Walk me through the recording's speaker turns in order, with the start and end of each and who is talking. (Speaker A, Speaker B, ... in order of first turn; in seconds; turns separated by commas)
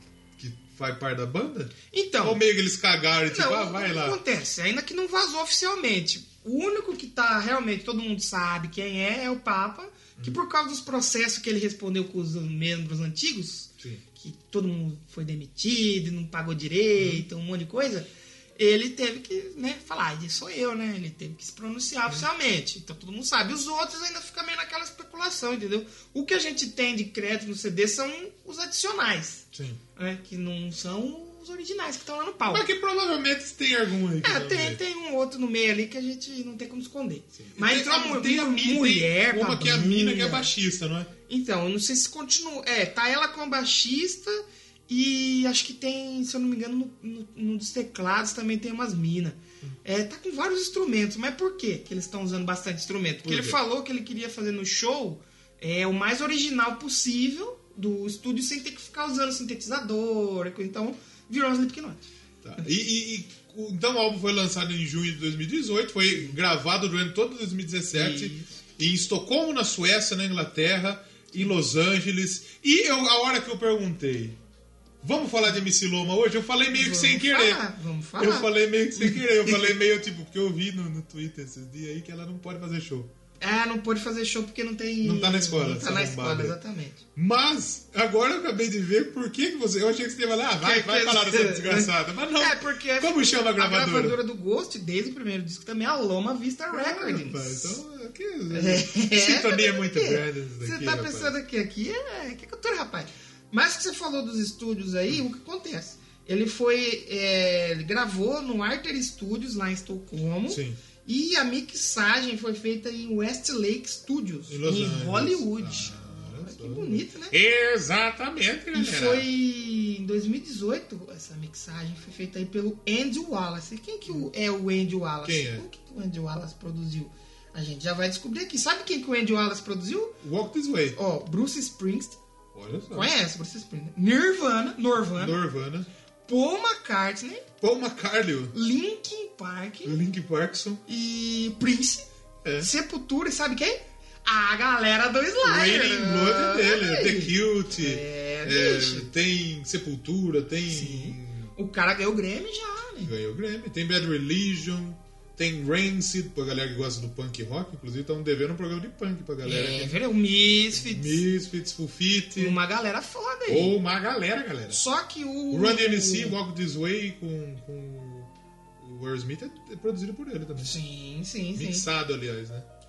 Speaker A: 0.4-4.2, Speaker B: 1.9-2.4, Speaker B: 3.3-32.7, Speaker A: 17.0-17.2, Speaker A: 29.5-29.8, Speaker A: 32.5-34.8, Speaker B: 34.2-40.5, Speaker A: 37.4-41.1, Speaker B: 41.3-62.1, Speaker A: 53.2-53.6, Speaker A: 62.4-74.4, Speaker B: 67.9-68.6, Speaker A: 75.0-77.6, Speaker B: 76.7-79.7, Speaker A: 78.2-83.1, Speaker B: 83.4-87.0, Speaker A: 85.0-86.6, Speaker A: 87.2-94.2, Speaker B: 90.6-97.8, Speaker A: 96.7-101.4, Speaker B: 98.5-117.3, Speaker A: 110.5-110.8, Speaker A: 114.5-119.3, Speaker B: 118.7-130.2, Speaker A: 125.2-125.7, Speaker A: 130.2-131.0, Speaker B: 130.9-132.2, Speaker A: 132.5-133.2, Speaker B: 132.9-135.4, Speaker A: 135.2-135.9, Speaker B: 136.3-137.5, Speaker A: 137.6-138.5, Speaker B: 138.5-140.0, Speaker A: 139.8-140.8, Speaker B: 140.9-142.1, Speaker A: 142.4-142.7, Speaker B: 142.6-149.1, Speaker A: 145.4-151.5, Speaker B: 150.7-153.1, Speaker A: 153.0-160.0, Speaker B: 159.4-161.2, Speaker A: 160.7-162.6, Speaker B: 162.4-163.8, Speaker A: 163.5-164.8, Speaker B: 164.7-166.4, Speaker A: 165.5-170.8, Speaker B: 170.6-171.9, Speaker A: 171.6-172.7